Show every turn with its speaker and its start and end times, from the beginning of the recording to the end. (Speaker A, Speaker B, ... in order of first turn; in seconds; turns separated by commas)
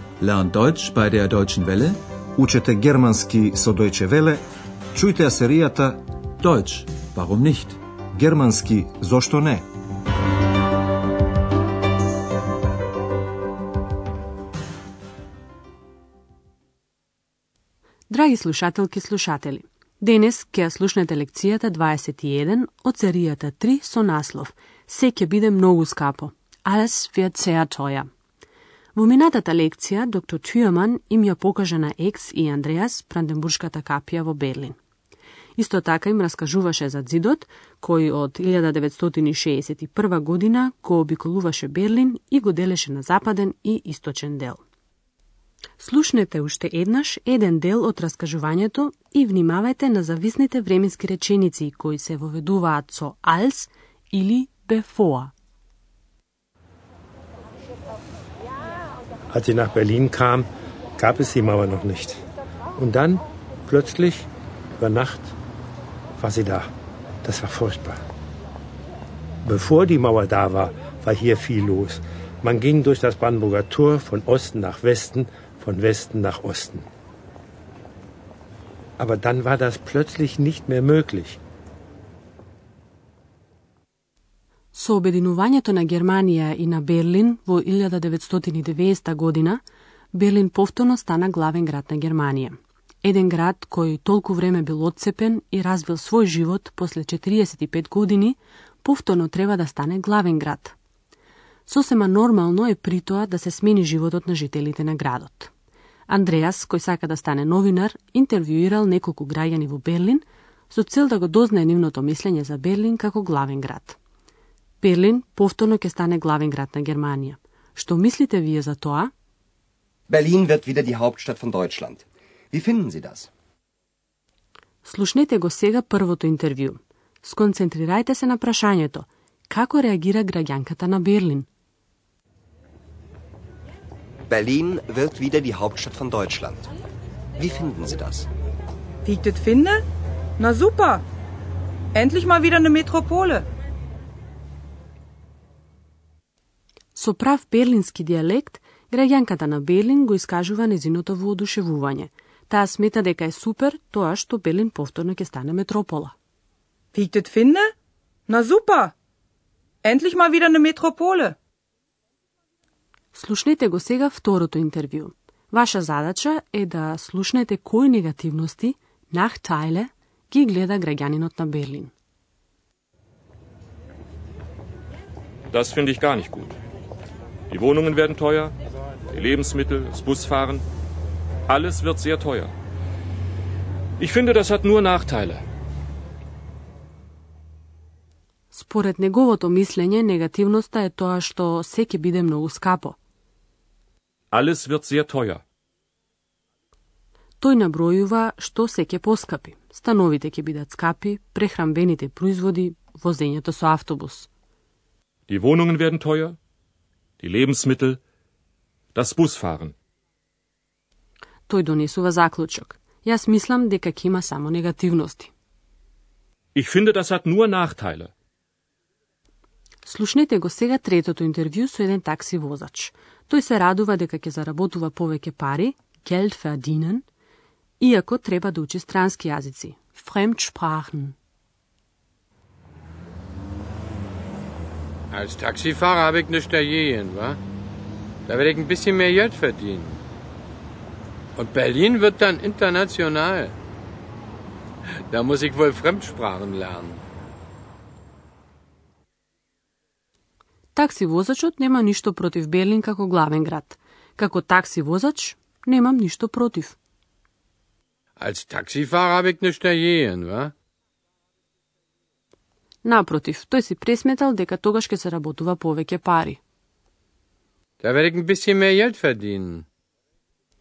Speaker A: 0.2-2.0, Speaker B: 2.4-4.4, Speaker B: 4.9-6.0, Speaker A: 6.4-7.8, Speaker B: 8.2-9.7, Speaker C: 18.1-28.1, Speaker C: 28.9-34.8, Speaker C: 35.6-44.6, Speaker C: 45.8-55.3, Speaker D: 59.3-60.5, Speaker D: 61.0-62.2, Speaker D: 62.8-65.3, Speaker D: 66.2-66.7, Speaker D: 67.2-68.0, Speaker D: 69.5-76.9, Speaker D: 79.0-81.4, Speaker C: 84.7-89.6, Speaker C: 90.1-100.8, Speaker C: 101.7-105.5, Speaker C: 106.1-114.0, Speaker C: 114.8-119.1, Speaker E: 120.1-123.3, Speaker C: 124.8-131.5, Speaker E: 134.3-136.7, Speaker E: 137.4-138.3, Speaker F: 139.1-139.8, Speaker F: 140.4-141.0, Speaker F: 141.9-143.5, Speaker C: 146.9-156.1, Speaker F: 156.9-157.7, Speaker F: 158.3-158.9, Speaker F: 159.8-161.4, Speaker C: 163.1-171.9, Speaker G: 175.5-176.6, Speaker G: 177.5-178.5, Speaker G: 179.1-180.6, Speaker G: 181.5-182.5, Speaker G: 184.0-185.4, Speaker C: 188.5-193.0, Speaker G: 194.3-195.4, Speaker C: 197.4-204.3, Speaker G: 205.3-206.4, Speaker G: 207.2-208.0, Speaker G: 208.9-209.7, Speaker C: 211.5-215.3, Speaker G: 216.6-218.1, Speaker C: 219.8-227.1, Speaker C: 227.8-231.2, Speaker H: 235.1-237.4, Speaker H: 238.3-240.0, Speaker H: 241.4-243.5, Speaker H: 245.1-247.0, Speaker C: 250.8-256.8, Speaker H: 258.2-260.5, Speaker C: 262.8-266.4, Speaker H: 267.8-269.6